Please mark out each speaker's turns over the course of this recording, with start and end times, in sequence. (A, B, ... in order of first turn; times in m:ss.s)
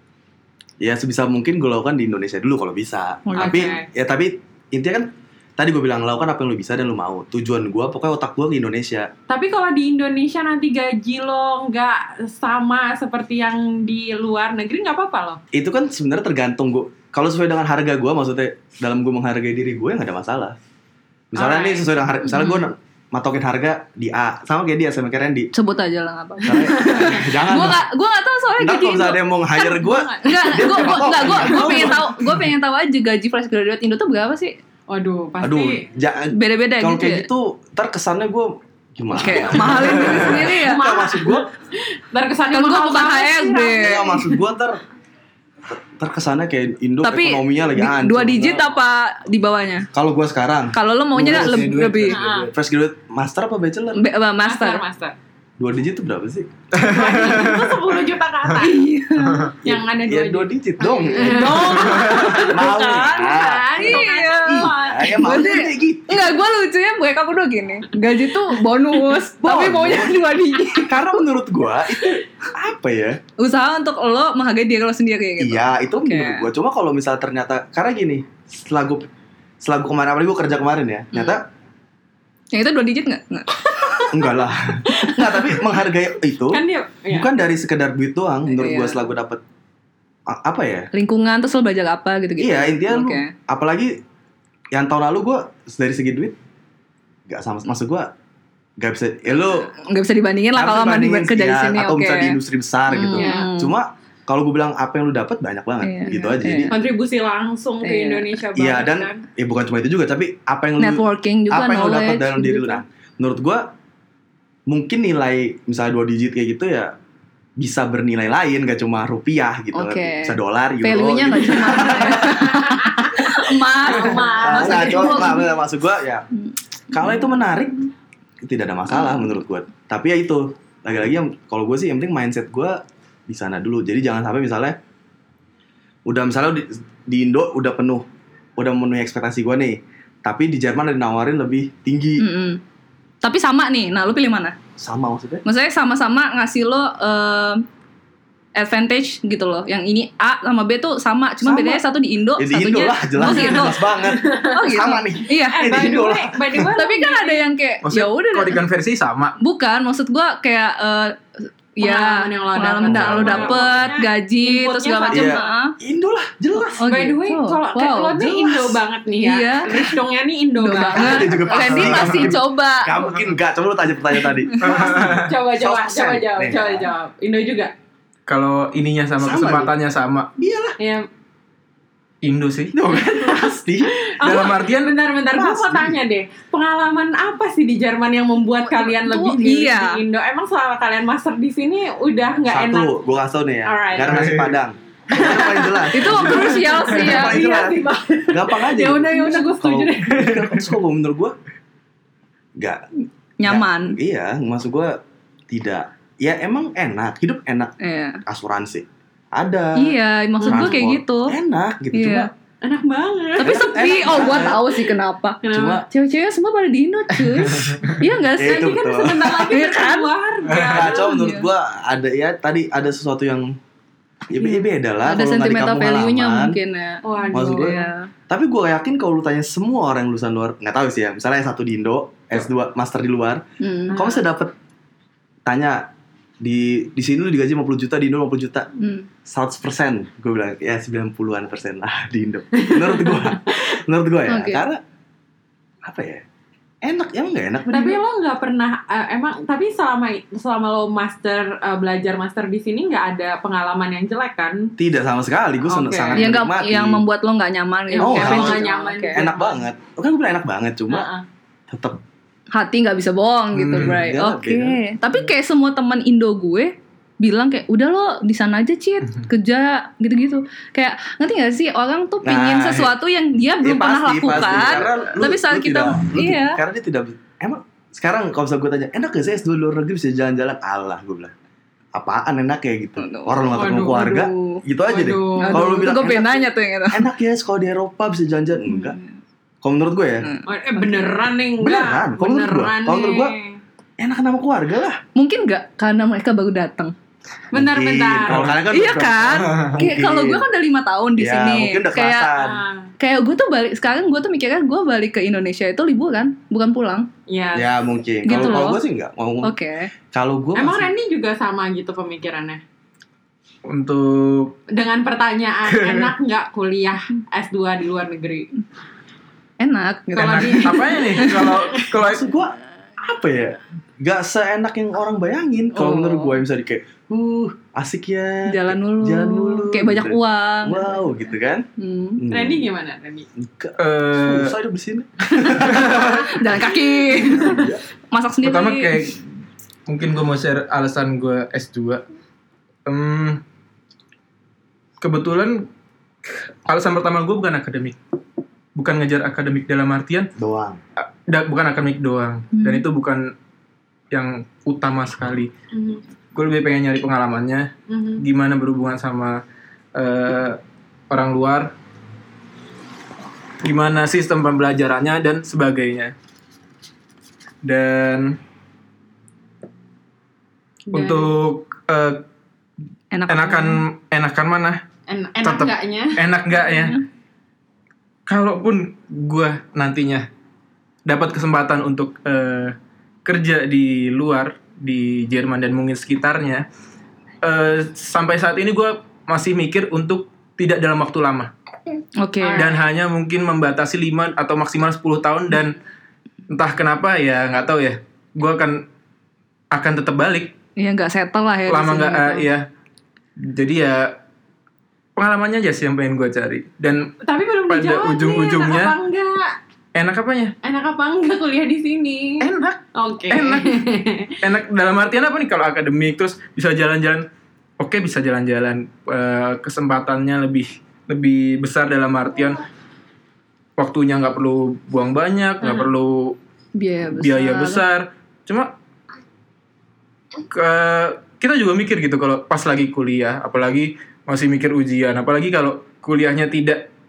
0:00.8-0:09.1 A
0:03.2-0:03.7 B
0:03.4-0:03.9 C
0:09.3-0:15.4 C
0:15.5-0:20.6 A
0:21.3-0:25.5 A
0:21.4-0:21.9 C
0:22.3-0:22.7 B
0:25.5-0:34.6 B
0:26.4-0:27.8 A
0:26.9-0:27.1 C
0:28.6-0:32.4 A
0:29.7-0:32.0 C
0:34.9-0:35.8 C
0:35.4-0:41.5 A
0:36.3-0:37.3 B
0:39.1-0:40.8 B
0:39.9-0:44.3 C
0:42.5-0:44.2 B
0:43.8-0:44.8 A
0:45.7-0:48.7 A
0:47.0-0:49.9 B
0:49.9-0:51.7 A
0:50.7-0:52.2 B
0:51.1-0:52.5 D
0:52.1-0:52.5 C
0:52.5-0:54.0 A
0:53.9-0:54.8 B
0:54.4-0:55.2 C
0:55.6-0:56.5 A
0:56.7-0:57.9 D
0:56.8-0:58.9 C
0:58.6-0:59.5 B
0:59.2-0:59.5 D
0:59.6-1:05.4 C
0:59.6-1:06.4 A
1:00.9-1:11.2 B
1:01.8-1:02.3 D
1:09.4-1:10.2 A
1:10.8-1:13.2 A
1:13.4-1:16.5 B
1:15.4-1:19.1 A
1:19.6-1:21.4 A
1:21.1-1:21.4 B
1:22.5-1:24.2 B
1:24.1-1:29.4 A
1:25.0-1:25.5 C
1:26.5-1:27.3 C
1:28.5-1:29.0 B
1:30.3-1:30.9 A
1:30.9-1:33.3 B
1:32.4-1:34.0 A
1:34.7-1:36.3 A
1:37.3-1:38.1 A
1:38.8-1:39.7 A
1:39.4-1:42.4 B
1:40.5-1:46.8 A
1:42.9-1:43.7 B
1:43.1-1:43.5 C
1:45.8-1:46.7 B
1:46.7-1:49.2 C
1:47.8-1:48.3 B
1:48.5-1:53.7 A
1:50.8-1:52.8 B
1:54.7-1:56.9 A
1:57.6-2:02.5 A
1:59.7-2:05.5 B
2:02.2-2:03.1 C
2:03.8-2:05.4 C
2:04.4-2:06.2 A
2:06.9-2:07.8 A
2:08.4-2:14.8 A
2:16.0-2:18.0 A
2:18.6-2:22.2 A
2:22.2-2:22.6 B
2:23.2-2:24.6 B
2:24.8-2:25.4 A
2:25.4-2:27.6 B
2:28.6-2:33.9 B
2:31.4-2:31.8 A
2:32.4-2:36.7 A
2:33.2-2:34.8 C
2:34.5-2:36.0 B
2:35.4-2:37.5 C
2:36.7-2:38.6 B
2:37.8-2:39.4 D
2:39.4-2:45.7 B
2:41.8-2:45.5 C
2:42.9-2:43.6 A
2:45.1-2:46.9 A
2:46.8-2:48.7 B
2:46.8-2:52.1 C
2:49.2-2:49.9 B
2:50.6-2:53.0 B
2:50.9-2:56.9 A
2:54.6-2:55.3 D
2:54.6-2:57.7 C
2:58.3-3:00.3 D
2:59.2-2:59.7 A
3:00.4-3:00.8 A
3:00.8-3:01.1 C
3:02.2-3:02.7 D
3:02.7-3:03.9 A
3:03.0-3:12.9 C
3:04.2-3:04.9 D
3:05.3-3:06.0 A
3:08.6-3:10.0 B
3:12.5-3:21.3 A
3:13.6-3:14.3 C
3:14.0-3:14.5 D
3:15.1-3:20.4 C
3:15.9-3:17.4 B
3:22.6-3:22.8 A
3:23.4-3:24.0 B
3:23.4-3:32.3 A
3:27.8-3:28.2 B
3:29.8-3:31.3 B
3:30.4-3:30.8 C
3:31.9-3:32.3 B
3:32.6-3:34.6 C
3:33.4-3:40.1 B
3:33.4-3:34.6 A
3:35.4-3:35.8 C
3:35.5-3:35.8 A
3:37.3-3:38.0 D
3:38.4-3:39.5 A
3:38.4-3:41.1 C
3:40.5-3:40.8 D
3:40.7-3:43.6 A
3:40.8-3:41.4 B
3:44.3-3:46.6 A
3:45.0-3:48.1 B
3:47.0-3:47.9 C
3:47.3-3:47.8 A
3:48.3-3:54.5 A
3:53.6-3:54.0 B
3:53.9-3:54.2 C
3:55.4-3:55.9 A
3:56.4-3:58.7 A
3:58.8-3:59.1 B
3:59.2-4:04.8 A
4:02.6-4:03.4 C
4:04.3-4:04.6 B
4:05.8-4:06.2 A
4:06.8-4:08.0 A
4:07.7-4:14.7 C
4:14.8-4:17.0 A
4:15.7-4:16.2 C
4:16.1-4:19.2 B
4:17.9-4:19.6 C
4:18.0-4:21.1 A
4:20.9-4:21.2 C
4:21.7-4:22.0 A
4:22.5-4:36.6 B
4:23.5-4:24.1 D
4:23.8-4:24.8 A
4:32.2-4:32.9 A
4:33.6-4:41.3 A
4:41.9-4:49.0 A
4:43.0-4:44.6 B
4:43.5-4:44.2 C
4:44.8-4:45.8 C
4:45.4-4:47.0 B
4:48.7-4:49.1 B
4:49.6-4:50.3 A
4:50.2-4:50.5 B
4:50.5-4:53.6 C
4:51.6-4:53.4 A
4:54.0-4:55.0 A
4:55.1-4:56.9 B
4:57.5-4:58.5 C
4:57.5-5:00.4 A
4:58.3-4:58.6 D
4:58.7-5:02.3 B
4:59.4-4:59.8 D
5:01.2-5:02.6 A
5:02.4-5:02.9 C
5:03.0-5:07.1 B
5:07.3-5:07.7 C
5:07.5-5:09.5 A
5:08.2-5:08.8 B
5:09.4-5:09.9 B
5:10.1-5:10.9 A
5:10.5-5:12.6 C
5:13.6-5:14.6 D
5:14.7-5:18.5 C
5:15.6-5:16.1 D
5:19.6-5:21.5 B
5:20.2-5:21.8 C
5:20.2-5:22.2 D
5:21.9-5:32.6 A
5:25.8-5:26.3 C
5:28.4-5:30.9 B
5:31.8-5:32.2 B
5:32.3-5:33.3 C
5:33.4-5:36.2 A
5:33.8-5:34.5 D
5:35.7-5:36.2 D
5:36.0-5:39.0 B
5:37.2-5:37.8 A
5:37.2-5:37.6 C
5:38.4-5:39.2 D
5:39.9-5:42.0 D
5:42.8-5:43.4 D
5:45.0-5:45.7 D
5:46.2-5:48.0 D
5:48.8-5:50.3 D
5:50.4-5:50.8 A
5:51.0-5:53.3 D
5:52.5-5:52.8 B
5:54.1-5:55.5 D
5:55.7-5:56.0 C
5:56.3-5:59.4 D
5:57.9-5:58.2 C
5:59.9-6:00.6 D
6:01.1-6:01.7 D
6:03.6-6:06.1 D
6:07.6-6:08.4 D
6:10.9-6:11.3 C
6:10.9-6:12.2 D
6:13.1-6:13.8 B
6:13.3-6:14.8 D
6:15.1-6:16.2 C
6:15.4-6:17.0 D
6:18.3-6:20.3 D
6:21.0-6:26.6 D
6:27.4-6:31.5 D
6:32.2-6:32.7 B
6:32.4-6:32.8 C
6:32.5-6:35.8 D
6:36.5-6:38.8 D
6:39.7-6:40.5 D
6:40.8-6:42.5 B
6:41.7-6:42.7 D
6:43.4-6:44.2 D
6:45.2-6:47.1 D
6:47.2-6:49.6 C
6:47.7-6:49.0 D
6:49.9-6:50.5 D
6:50.6-6:54.3 C
6:52.4-6:53.8 D
6:54.4-6:57.3 D
6:57.8-7:02.6 D
7:03.8-7:06.4 D
7:05.6-7:05.9 C
7:06.8-7:07.8 B
7:07.2-7:08.7 D
7:10.5-7:16.9 D